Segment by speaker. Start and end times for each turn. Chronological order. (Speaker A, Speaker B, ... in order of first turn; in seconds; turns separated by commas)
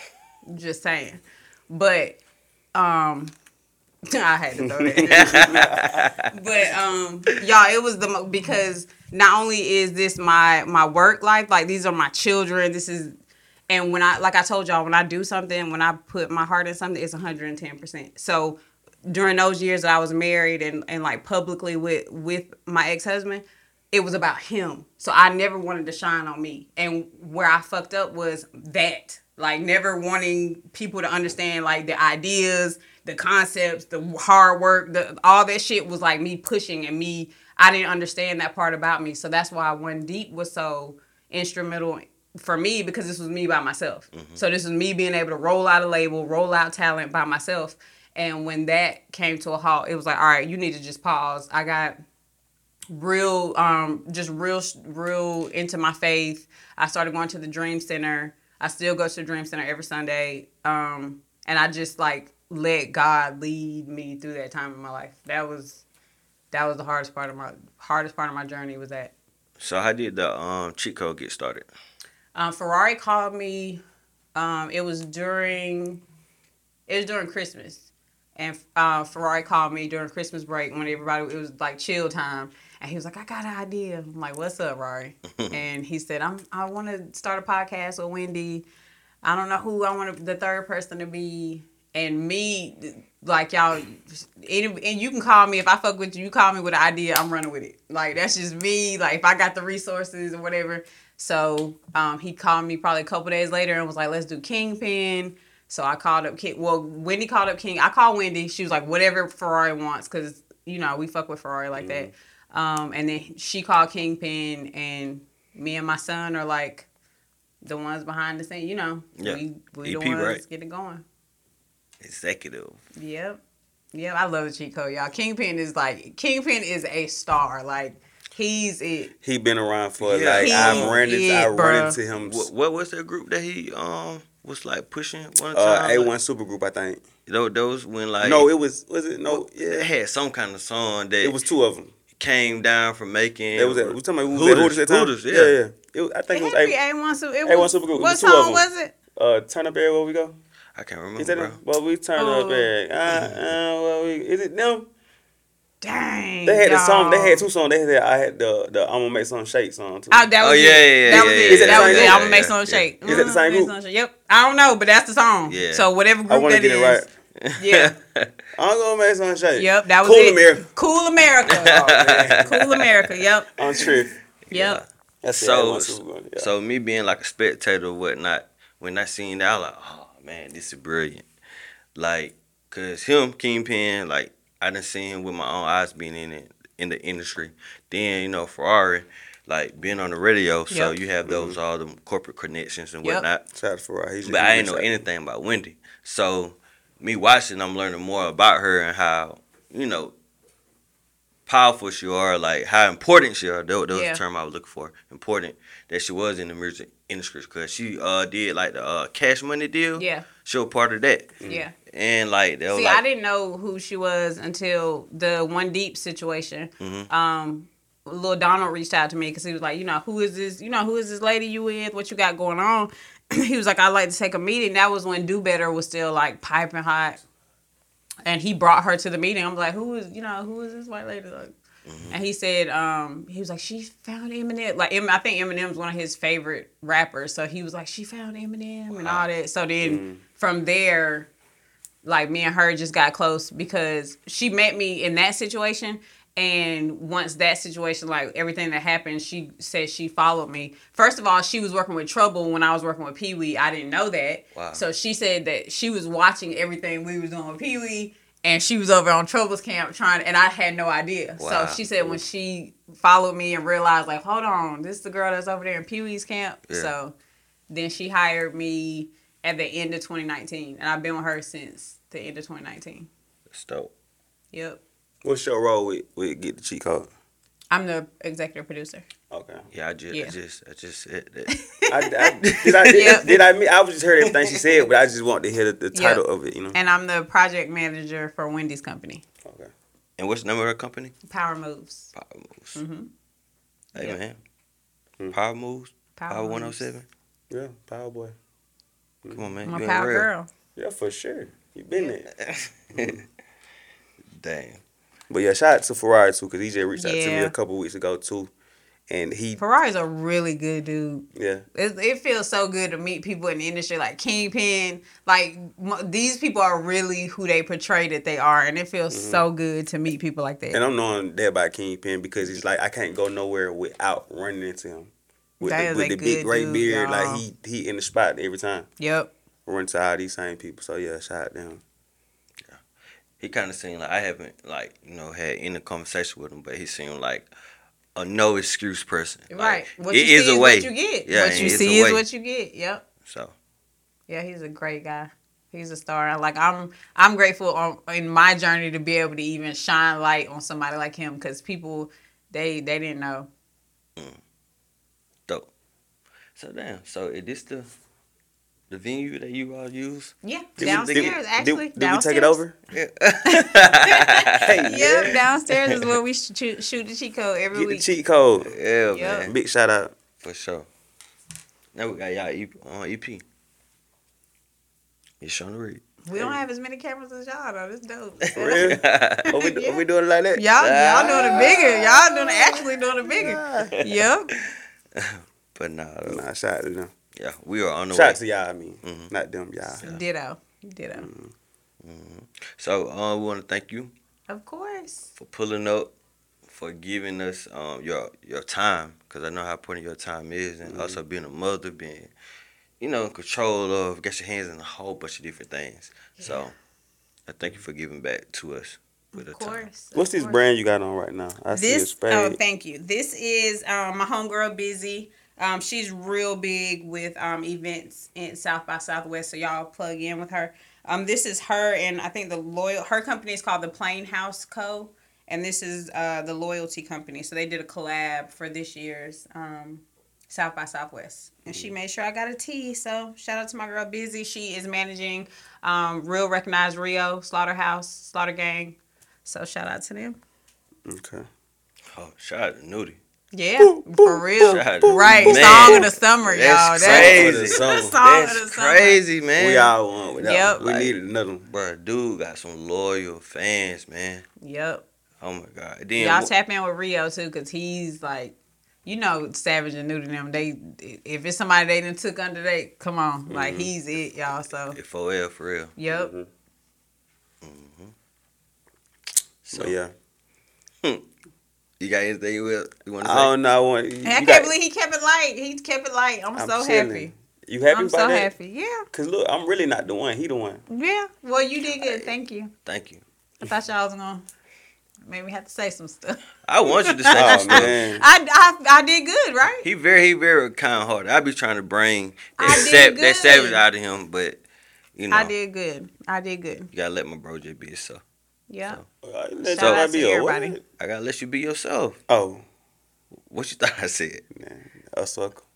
Speaker A: 0.5-2.2, Speaker A: 2.7-3.3, Speaker A: 4.1-5.6, Speaker B: 4.8-6.0, Speaker C: 5.1-6.3, Speaker A: 6.3-13.1, Speaker A: 13.7-52.0, Speaker C: 44.1-44.4, Speaker A: 52.9-65.8, Speaker A: 66.5-69.1, Speaker C: 69.6-71.7, Speaker A: 72.3-73.8, Speaker A: 74.3-76.0, Speaker A: 76.9-88.6, Speaker A: 89.2-116.9, Speaker B: 111.7-112.1, Speaker A: 117.6-121.0, Speaker C: 119.2-120.4, Speaker C: 122.0-122.8, Speaker A: 123.0-123.4, Speaker A: 123.9-129.1, Speaker B: 129.2-132.5, Speaker C: 130.0-131.0, Speaker A: 130.4-132.0, Speaker C: 132.1-136.1, Speaker B: 135.5-137.0, Speaker C: 137.3-138.5, Speaker B: 138.2-139.9, Speaker C: 139.3-141.4, Speaker B: 141.2-141.9, Speaker C: 142.2-145.5, Speaker B: 143.5-146.8, Speaker A: 146.3-148.9, Speaker B: 147.4-150.3, Speaker C: 150.8-151.6, Speaker B: 151.2-154.9, Speaker A: 152.2-152.7, Speaker C: 153.1-153.3, Speaker A: 155.8-157.4, Speaker B: 156.4-160.3, Speaker A: 160.1-167.9, Speaker C: 160.4-163.3, Speaker B: 161.1-162.4, Speaker B: 163.0-163.7, Speaker C: 165.5-165.9, Speaker B: 166.3-167.1, Speaker C: 167.4-168.3, Speaker B: 168.5-170.6, Speaker A: 169.6-171.8, Speaker C: 171.5-172.8, Speaker B: 171.6-172.5, Speaker A: 172.4-173.5, Speaker B: 173.6-174.1, Speaker C: 174.4-181.3, Speaker A: 174.5-174.8, Speaker B: 175.2-176.5, Speaker C: 181.9-193.4, Speaker A: 190.7-190.9, Speaker B: 191.2-191.6, Speaker B: 193.5-194.9, Speaker C: 194.2-200.1, Speaker C: 201.5-213.0, Speaker A: 203.9-204.2, Speaker A: 210.0-210.3, Speaker A: 211.5-211.7, Speaker A: 212.7-227.2, Speaker C: 216.8-217.1, Speaker A: 228.2-231.5, Speaker C: 231.8-232.2, Speaker A: 232.1-241.3, Speaker C: 238.9-239.2, Speaker B: 239.8-240.2, Speaker A: 242.0-267.1, Speaker C: 254.5-254.8, Speaker C: 261.4-262.1, Speaker A: 267.7-273.1, Speaker C: 273.5-273.9, Speaker A: 274.5-274.8, Speaker B: 275.2-277.1, Speaker A: 277.7-279.1, Speaker B: 279.3-279.6, Speaker C: 279.7-281.5, Speaker A: 281.5-282.3, Speaker B: 281.9-286.8, Speaker C: 282.6-283.3, Speaker A: 282.9-283.3, Speaker C: 284.2-284.8, Speaker A: 285.9-286.2, Speaker A: 286.7-289.2, Speaker B: 289.4-289.7, Speaker C: 290.2-291.1, Speaker A: 291.3-292.1, Speaker C: 292.1-292.8, Speaker A: 292.7-293.1, Speaker C: 293.9-294.4, Speaker C: 295.3-297.1, Speaker A: 296.2-296.9, Speaker B: 297.5-298.3, Speaker B: 299.2-299.5, Speaker C: 299.3-300.3, Speaker A: 299.6-300.5, Speaker B: 300.8-302.3, Speaker C: 302.3-303.2, Speaker B: 302.9-303.2, Speaker C: 304.4-304.8, Speaker B: 305.3-308.5, Speaker A: 306.9-307.5, Speaker B: 309.1-309.6, Speaker A: 309.6-320.8, Speaker B: 311.3-311.6, Speaker B: 319.1-319.4, Speaker B: 320.7-328.9, Speaker A: 325.6-327.4, Speaker A: 329.0-329.3, Speaker B: 329.6-331.8, Speaker C: 333.4-337.5, Speaker C: 338.1-342.2, Speaker A: 339.5-343.0, Speaker C: 343.2-343.5, Speaker A: 344.3-353.5, Speaker C: 356.6-357.9, Speaker C: 358.9-361.4, Speaker A: 360.4-362.6, Speaker B: 360.8-362.8, Speaker C: 362.9-364.9, Speaker A: 363.5-368.1, Speaker B: 364.6-365.4, Speaker C: 365.8-366.1, Speaker B: 367.7-368.7, Speaker C: 368.7-369.5, Speaker A: 369.1-369.5, Speaker B: 369.4-370.1, Speaker C: 370.4-370.9, Speaker C: 371.9-373.4, Speaker C: 375.4-376.0, Speaker A: 376.2-378.9, Speaker B: 378.6-382.7, Speaker C: 378.6-379.5, Speaker A: 379.5-380.0, Speaker A: 380.5-384.5, Speaker C: 380.8-381.9, Speaker B: 383.3-383.9, Speaker C: 383.4-386.4, Speaker B: 386.2-387.1, Speaker C: 387.3-388.4, Speaker B: 388.1-390.0, Speaker C: 389.0-389.3, Speaker A: 389.9-391.3, Speaker B: 391.2-391.5, Speaker C: 392.0-394.1, Speaker A: 394.5-395.3, Speaker C: 395.4-396.1, Speaker C: 396.7-402.3, Speaker B: 400.8-401.2, Speaker C: 403.0-406.7, Speaker C: 407.5-409.9, Speaker A: 409.3-410.6, Speaker B: 410.1-412.6, Speaker A: 411.7-440.4, Speaker B: 441.1-441.5, Speaker C: 442.1-443.2, Speaker A: 443.5-449.2, Speaker B: 443.8-446.1, Speaker C: 444.6-449.9, Speaker B: 447.0-448.1, Speaker B: 449.6-451.6, Speaker A: 450.4-450.8, Speaker C: 450.8-451.1, Speaker C: 451.7-454.4, Speaker A: 454.6-455.0, Speaker C: 455.4-456.5, Speaker A: 456.2-465.0, Speaker B: 463.5-463.9, Speaker C: 464.9-465.9, Speaker A: 466.0-466.3, Speaker B: 466.1-466.5, Speaker C: 467.6-468.1, Speaker C: 469.6-469.9, Speaker B: 469.7-470.1, Speaker C: 472.0-473.5, Speaker B: 473.2-474.7, Speaker A: 474.2-477.3, Speaker B: 476.5-478.5, Speaker A: 477.9-479.1, Speaker B: 479.1-480.8, Speaker A: 480.9-482.7, Speaker C: 482.0-482.3, Speaker C: 482.8-483.2, Speaker A: 483.6-484.4, Speaker A: 485.3-489.9, Speaker C: 486.6-488.0, Speaker B: 487.3-488.2, Speaker C: 489.8-494.6, Speaker A: 492.6-493.8, Speaker C: 495.1-495.5, Speaker A: 495.3-496.9, Speaker C: 496.9-498.2, Speaker A: 498.7-499.0, Speaker B: 499.2-500.8, Speaker A: 499.7-500.8, Speaker C: 499.8-500.0, Speaker C: 501.0-502.2, Speaker B: 502.3-502.6, Speaker C: 503.4-504.4, Speaker B: 504.5-505.6